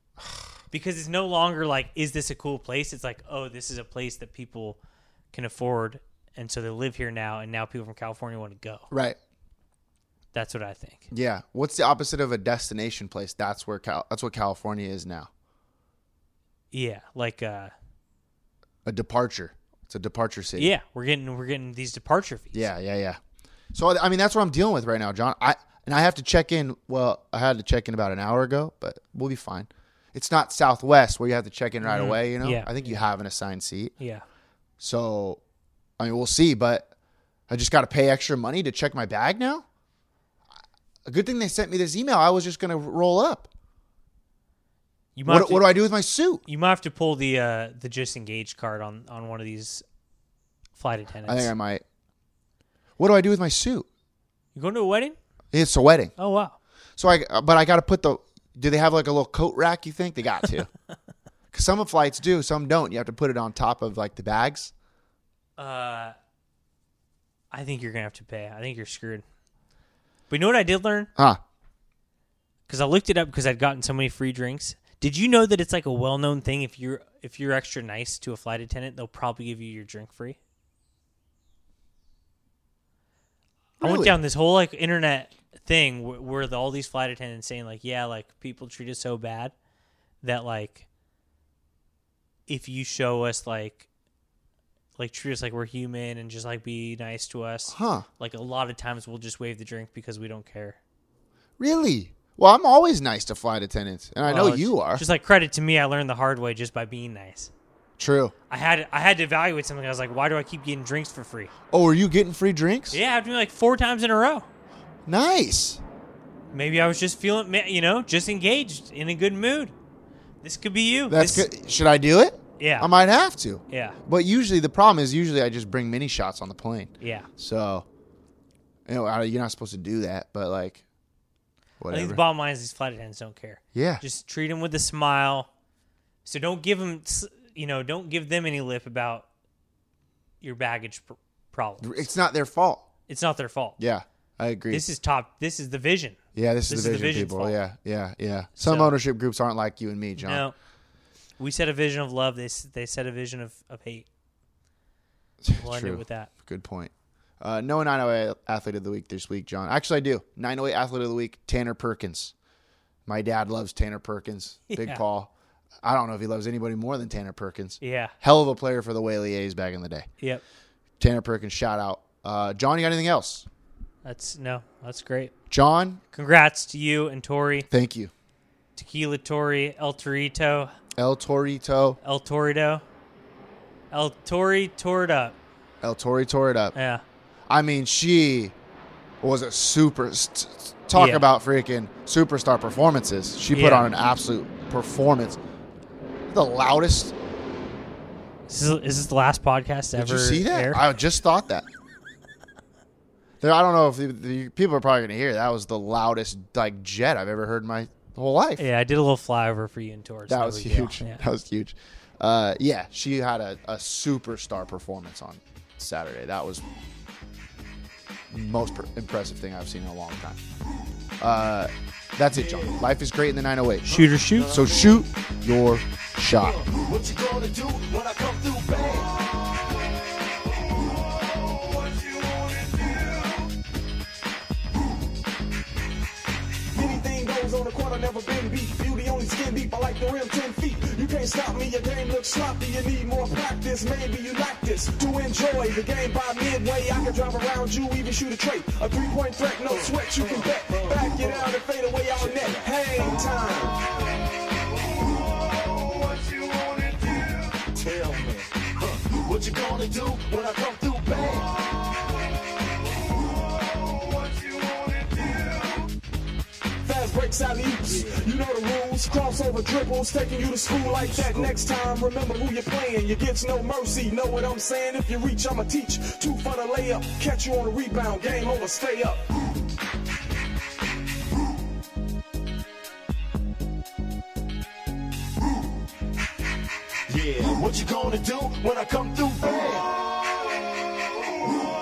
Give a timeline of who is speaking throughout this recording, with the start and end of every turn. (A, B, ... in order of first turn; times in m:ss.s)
0:00.7-0:04.8 A
0:05.3-0:08.9 A
0:08.9-0:09.2 B
0:10.3-0:11.1 A
0:11.1-0:15.3 B
0:16.7-0:17.7 A
0:18.8-0:20.7 B
0:20.6-0:22.7 A
0:22.5-0:23.2 B
0:23.7-0:33.9 B
0:31.8-0:33.0 A
0:34.0-0:34.2 A
0:34.8-0:35.4 B
0:36.0-0:36.9 B
0:37.5-0:39.6 B
0:41.1-0:43.5 B
0:45.2-0:45.8 A
0:45.3-0:46.4 B
0:46.5-0:49.8 A
0:50.8-0:51.5 A
0:51.3-0:51.8 B
0:53.0-0:53.9 B
0:54.6-0:55.2 A
0:55.5-0:56.1 B
0:56.2-0:56.6 A
0:57.0-1:00.7 B
1:01.5-1:04.7 B
1:05.6-1:06.2 A
1:07.5-1:09.2 A
1:10.3-1:11.1 A
1:11.2-1:11.4 B
1:12.7-1:20.4 A
1:23.8-1:24.2 B
1:23.8-1:29.5 A
1:30.2-1:30.8 A
1:32.5-1:33.9 A
1:35.0-1:40.8 A
1:37.7-1:38.1 B
1:41.6-1:45.0 B
1:44.2-1:47.5 A
1:48.0-1:48.3 B
1:48.5-1:51.5 A
1:51.7-1:53.0 B
1:52.9-1:54.5 A
1:55.1-1:55.8 B
1:56.5-1:59.7 A
2:00.4-2:01.5 A
2:01.1-2:07.9 B
2:02.6-2:02.9 A
2:03.7-2:04.0 A
2:07.0-2:07.3 A
2:08.9-2:10.8 B
2:11.8-2:12.2 B
2:11.9-2:15.5 A
2:13.7-2:14.0 B
2:16.2-2:19.3 A
2:20.4-2:22.0 A
2:21.8-2:22.9 B
2:23.1-2:23.8 A
2:23.8-2:24.9 B
2:24.7-2:27.6 A
2:26.4-2:30.5 B
2:28.6-2:29.0 A
2:30.2-2:30.6 A
2:31.4-2:34.1 A
2:35.4-2:42.3 B
2:35.6-2:36.3 A
2:43.1-2:50.1 B
2:44.7-2:45.0 A
2:47.8-2:48.1 A
2:51.0-2:53.5 B
2:54.0-2:55.3 A
2:55.5-2:56.0 B
2:56.1-2:57.7 A
2:57.7-2:58.1 B
2:58.8-3:00.7 A
3:01.0-3:02.0 B
3:02.0-3:02.8 A
3:03.9-3:05.4 A
3:05.8-3:06.7 B
3:06.8-3:07.0 A
3:07.5-3:08.6 B
3:09.2-3:15.4 B
3:11.0-3:11.3 A
3:13.5-3:13.9 A
3:16.3-3:17.2 B
3:18.5-3:20.8 A
3:20.0-3:21.7 B
3:23.4-3:28.6 B
3:28.6-3:31.2 A
3:30.3-3:36.6 B
3:38.3-3:40.4 B
3:41.2-3:46.6 B
3:42.3-3:42.8 C
3:43.9-3:44.6 A
3:43.9-3:45.0 C
3:46.4-3:49.1 C
3:56.7-4:13.8 D
4:09.7-4:11.5 C
4:12.2-4:13.2 C
4:17.7-4:21.5 C
4:26.8-4:39.3 D
4:27.9-4:28.3 C
4:30.8-4:31.5 C
4:47.1-4:50.0 C